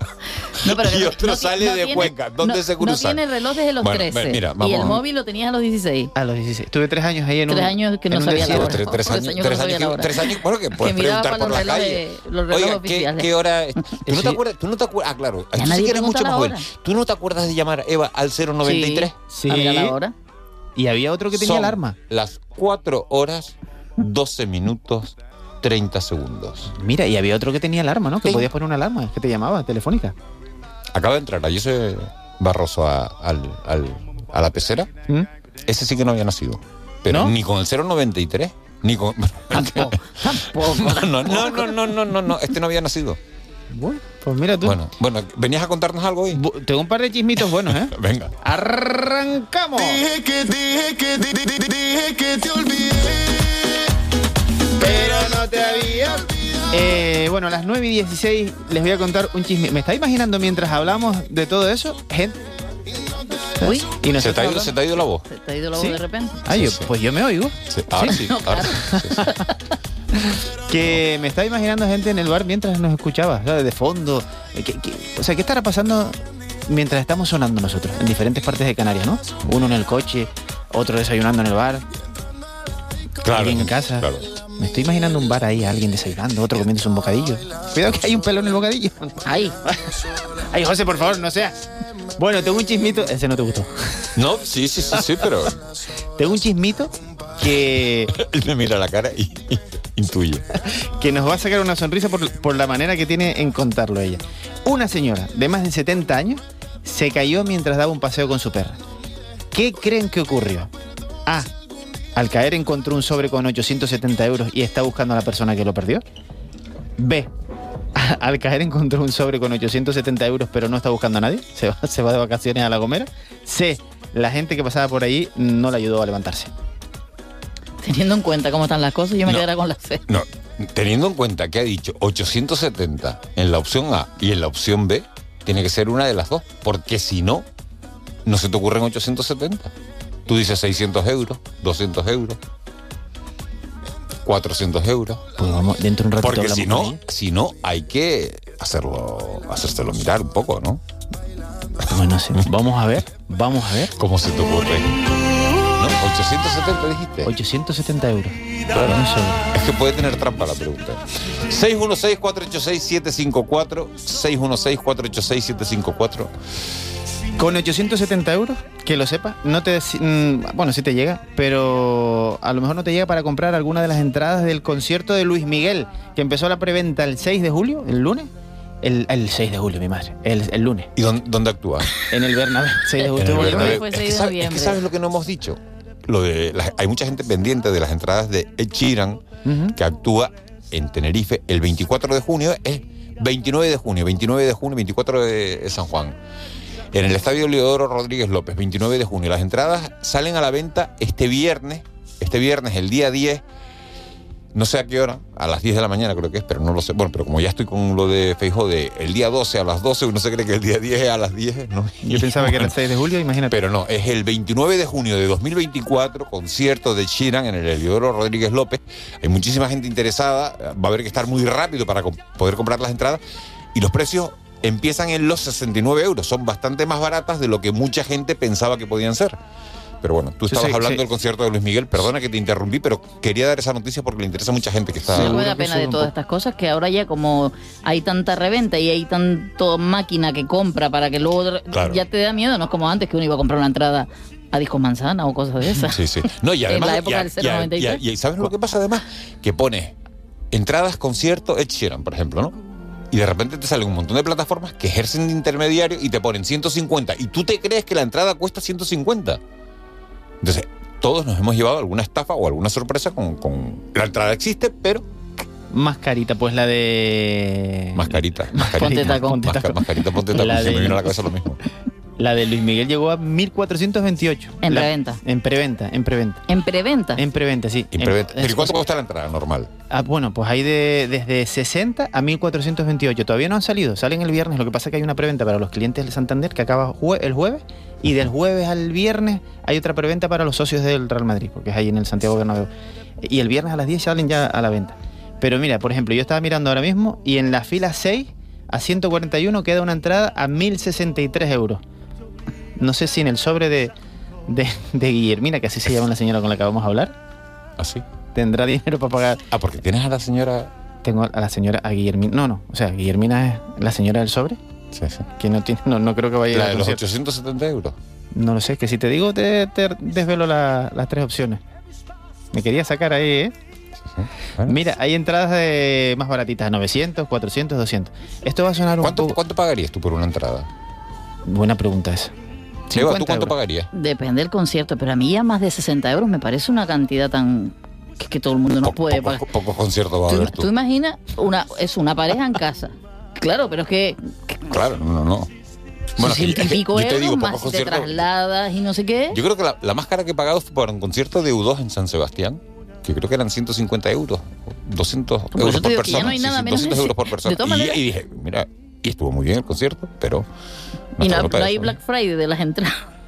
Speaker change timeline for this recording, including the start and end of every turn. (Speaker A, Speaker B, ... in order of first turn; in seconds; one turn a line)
Speaker A: 0.6-6.1
Speaker B: 0.7-3.2
Speaker B: 3.8-5.0
Speaker C: 6.2-8.7
Speaker A: 7.5-14.0
Speaker B: 8.1-19.1
Speaker C: 14.1-14.4
Speaker A: 15.5-16.7
Speaker A: 18.6-20.1
Speaker C: 19.3-20.0
Speaker C: 20.8-22.0
Speaker B: 21.4-26.7
Speaker C: 26.7-30.1
Speaker B: 30.9-34.9
Speaker B: 35.6-43.2
Speaker C: 37.1-37.4
Speaker C: 39.6-41.7
Speaker C: 43.7-44.8
Speaker B: 44.6-46.4
Speaker C: 46.3-50.0
Speaker B: 47.7-48.3
Speaker D: 49.9-53.4
Speaker C: 54.8-62.4
Speaker C: 63.6-64.8
Speaker A: 63.6-63.9
Speaker B: 64.1-65.2
Speaker A: 65.3-66.4
Speaker C: 65.7-68.2
Speaker B: 66.5-66.9
Speaker B: 67.7-69.3
Speaker A: 68.1-69.5
Speaker C: 68.7-69.3
Speaker C: 70.3-81.9
Speaker B: 83.2-84.3
Speaker C: 83.3-89.8
Speaker A: 89.2-89.5
Speaker C: 90.5-91.6
Speaker C: 92.2-94.1
Speaker B: 94.2-95.5
Speaker C: 96.2-98.1
Speaker B: 98.1-100.5
Speaker C: 100.7-108.8
Speaker C: 109.5-110.7
Speaker C: 112.2-116.0
Speaker C: 117.0-117.3
Speaker C: 118.0-126.5
Speaker A: 127.8-130.0
Speaker B: 130.1-137.5
Speaker B: 138.3-139.7
Speaker B: 140.3-142.4
Speaker B: 144.2-145.2
Speaker C: 145.4-147.0
Speaker B: 146.2-150.8
Speaker C: 151.8-153.9
Speaker B: 154.0-154.9
Speaker B: 155.8-157.3
Speaker C: 157.2-159.4
Speaker B: 159.5-166.3
Speaker C: 167.4-178.3
Speaker C: 178.8-180.9
Speaker B: 181.0-182.0
Speaker C: 182.0-183.8
Speaker A: 183.0-184.8
Speaker B: 183.2-189.2
Speaker C: 189.4-189.8
Speaker B: 189.8-196.2
Speaker B: 196.9-203.4
Speaker B: 204.5-212.7
Speaker C: 212.0-213.6
Speaker B: 213.5-223.2
Speaker B: 223.7-229.4
Speaker B: 230.0-235.3
Speaker C: 230.5-231.0
Speaker C: 235.1-236.1
Speaker A: 235.1-246.0
Speaker B: 241.7-242.0
Speaker B: 245.9-249.9
Speaker A: 246.7-248.0
Speaker B: 250.5-252.6
Speaker B: 253.1-259.4
Speaker B: 260.4-265.1
Speaker C: 265.7-271.1
Speaker B: 267.9-271.6
Speaker A: 268.8-269.5
Speaker C: 272.2-276.4
Speaker A: 274.6-275.2
Speaker A: 276.5-277.2
Speaker C: 277.2-278.8
Speaker B: 277.9-279.7
Speaker C: 279.9-292.7
Speaker C: 293.2-301.8
Speaker C: 302.8-303.9
Speaker C: 304.5-307.1
Speaker B: 307.8-308.0
Speaker C: 308.3-309.4
Speaker B: 309.5-310.7
Speaker C: 311.0-314.6
Speaker B: 314.9-315.3
Speaker C: 315.4-317.0
Speaker B: 316.5-317.9
Speaker C: 318.3-321.6
Speaker C: 322.5-323.6
Speaker B: 324.1-324.8
Speaker C: 324.6-329.4
Speaker B: 329.0-330.7
Speaker C: 331.5-332.3
Speaker C: 332.9-333.5
Speaker B: 332.9-333.9
Speaker A: 333.9-339.5
Speaker B: 338.8-340.7
Speaker A: 340.3-344.7
Speaker B: 344.7-345.5
Speaker B: 346.2-348.2
Speaker A: 346.2-349.4
Speaker B: 349.3-360.5
Speaker A: 355.5-358.0
Speaker B: 361.2-361.9
Speaker A: 361.2-363.0